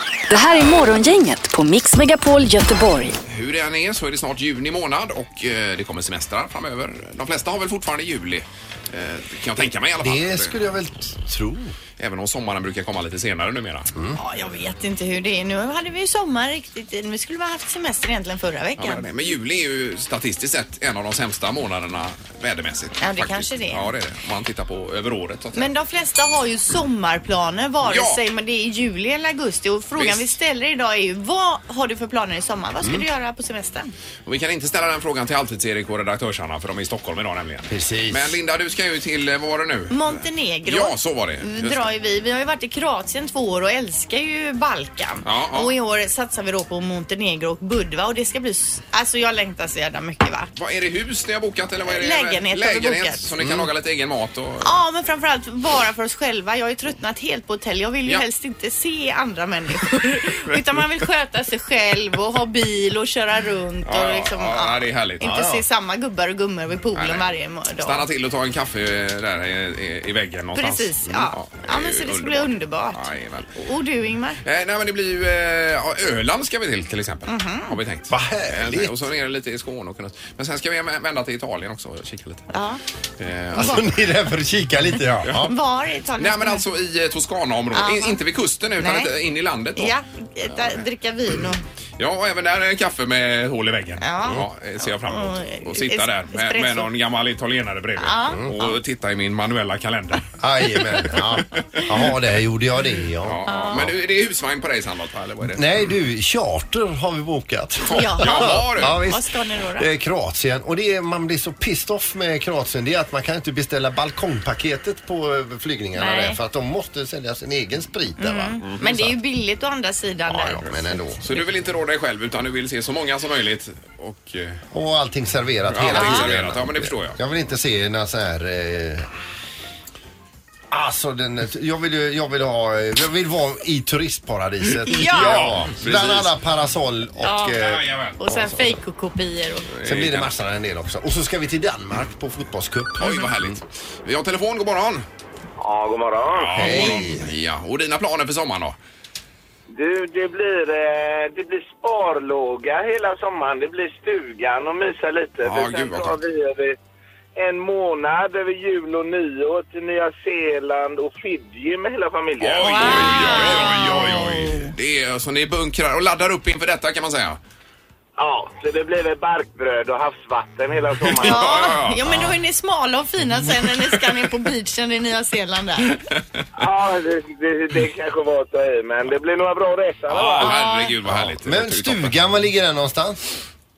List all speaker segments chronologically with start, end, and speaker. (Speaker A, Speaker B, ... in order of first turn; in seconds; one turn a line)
Speaker A: 0.3-3.2
Speaker B: 3.3-10.6
Speaker C: 10.0-11.8
Speaker B: 12.0-13.9
Speaker D: 14.2-19.0
Speaker B: 18.8-25.7
Speaker D: 23.0-23.9
Speaker D: 25.6-33.9
Speaker B: 27.8-28.2
Speaker B: 29.9-30.3
Speaker B: 34.3-41.9
Speaker C: 37.7-38.4
Speaker D: 39.9-50.5
Speaker B: 45.2-45.7
Speaker B: 50.6-54.8
Speaker D: 51.9-53.3
Speaker C: 53.4-53.7
Speaker D: 54.6-68.1
Speaker B: 63.9-65.3
Speaker C: 65.2-65.6
Speaker B: 67.0-67.3
Speaker B: 67.8-73.6
Speaker D: 70.5-73.0
Speaker D: 73.6-74.4
Speaker B: 74.4-82.5
Speaker D: 77.3-77.8
Speaker C: 78.1-79.0
Speaker D: 82.5-82.8
Speaker B: 83.2-83.9
Speaker C: 83.5-85.5
Speaker B: 85.2-85.5
Speaker D: 85.4-86.6
Speaker B: 86.2-89.9
Speaker D: 87.8-88.2
Speaker D: 88.8-89.1
Speaker D: 89.8-91.6
Speaker B: 90.5-90.8
Speaker B: 92.0-102.2
Speaker D: 94.0-96.9
Speaker D: 98.0-98.7
Speaker C: 100.4-103.9
Speaker B: 103.2-105.8
Speaker D: 103.5-103.9
Speaker C: 105.5-119.1
Speaker B: 107.9-109.0
Speaker D: 107.9-109.9
Speaker D: 116.0-116.4
Speaker D: 118.2-120.7
Speaker B: 118.6-118.9
Speaker C: 120.3-121.3
Speaker B: 121.2-124.6
Speaker C: 124.7-129.1
Speaker B: 125.7-127.2
Speaker D: 125.9-126.3
Speaker C: 130.7-138.8
Speaker D: 134.9-135.4
Speaker B: 134.9-136.4
Speaker D: 137.2-137.6
Speaker B: 137.6-138.2
Speaker D: 138.2-139.7
Speaker B: 139.7-140.3
Speaker C: 139.8-143.5
Speaker B: 143.0-145.1
Speaker E: 145.6-146.6
Speaker B: 146.3-148.8
Speaker C: 146.6-147.3
Speaker E: 149.7-156.8
Speaker B: 155.4-156.2
Speaker E: 157.4-163.5
Speaker B: 162.4-167.4
Speaker D: 162.6-164.8
Speaker E: 168.2-171.7
Speaker B: 171.0-172.1
Speaker D: 171.2-175.9
Speaker B: 175.9-176.5
Speaker E: 176.6-180.5
Speaker B: 180.1-182.2
Speaker D: 180.4-180.9
Speaker C: 181.1-183.2